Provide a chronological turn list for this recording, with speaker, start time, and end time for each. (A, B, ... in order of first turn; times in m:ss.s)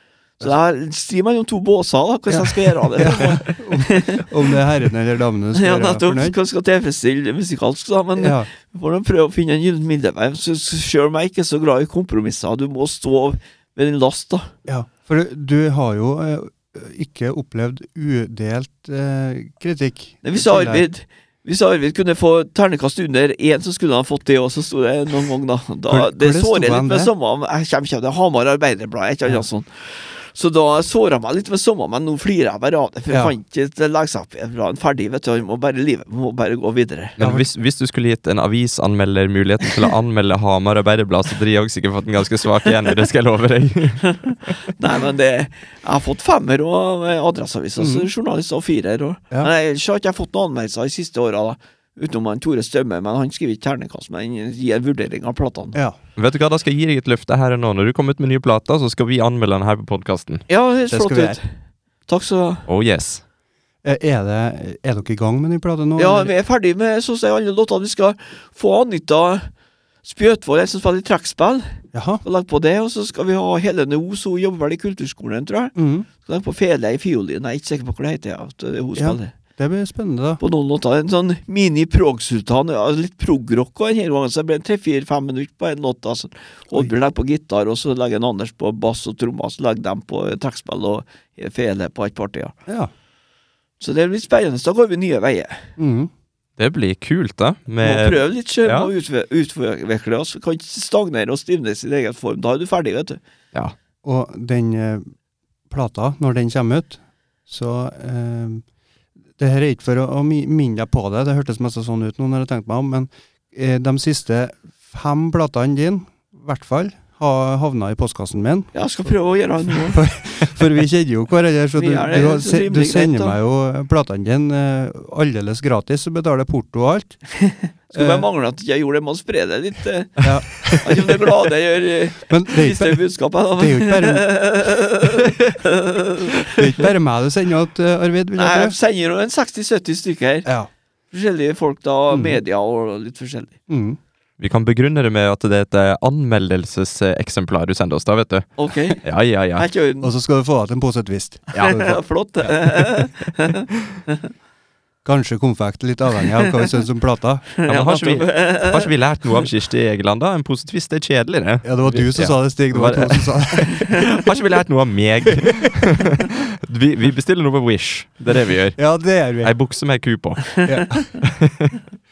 0:00.4-0:04.2 A
0:02.3-0:06.4 B
0:05.5-0:14.5 A
0:08.2-0:08.5 B
0:14.6-0:20.8 B
0:20.2-0:37.2 A
0:25.9-0:27.1 B
0:37.2-0:44.5 C
0:37.2-0:37.4 B
0:44.1-0:55.8 A
0:47.8-0:48.1 B
0:56.2-1:00.4 C
1:00.5-1:01.5 A
1:00.9-1:01.4 B
1:02.1-1:02.6 A
1:02.7-1:03.2 C
1:03.8-1:06.3 B
1:06.0-1:09.5 A
1:10.0-1:19.3 A
1:11.9-1:12.2 B
1:15.8-1:16.1 B
1:19.0-1:20.4 B
1:20.4-1:32.5 A
1:33.8-1:35.7 A
1:35.8-1:36.1 B
1:36.6-1:38.9 C
1:37.8-1:43.2 A
1:44.0-1:45.1 B
1:45.7-1:48.6 B
1:49.4-1:58.7 B
1:58.7-2:00.0 A
1:59.9-2:07.2 B
2:01.7-2:03.4 A
2:07.4-2:16.9 A
2:07.9-2:08.2 B
2:10.2-2:10.6 B
2:12.3-2:13.0 B
2:13.6-2:14.3 B
2:16.5-2:18.8 B
2:18.4-2:20.5 A
2:20.4-2:20.7 B
2:21.1-2:23.5 A
2:22.1-2:22.4 B
2:23.7-2:24.0 B
2:24.4-2:29.7 C
2:28.6-2:29.0 A
2:29.5-2:30.1 A
2:30.0-2:32.0 B
2:31.5-2:34.3 A
2:35.0-2:37.5 B
2:37.6-2:38.9 A
2:37.6-2:48.8 C
2:41.6-2:43.8 B
2:48.8-2:49.5 B
2:49.4-2:50.6 C
2:50.6-2:51.2 B
2:51.2-2:51.8 C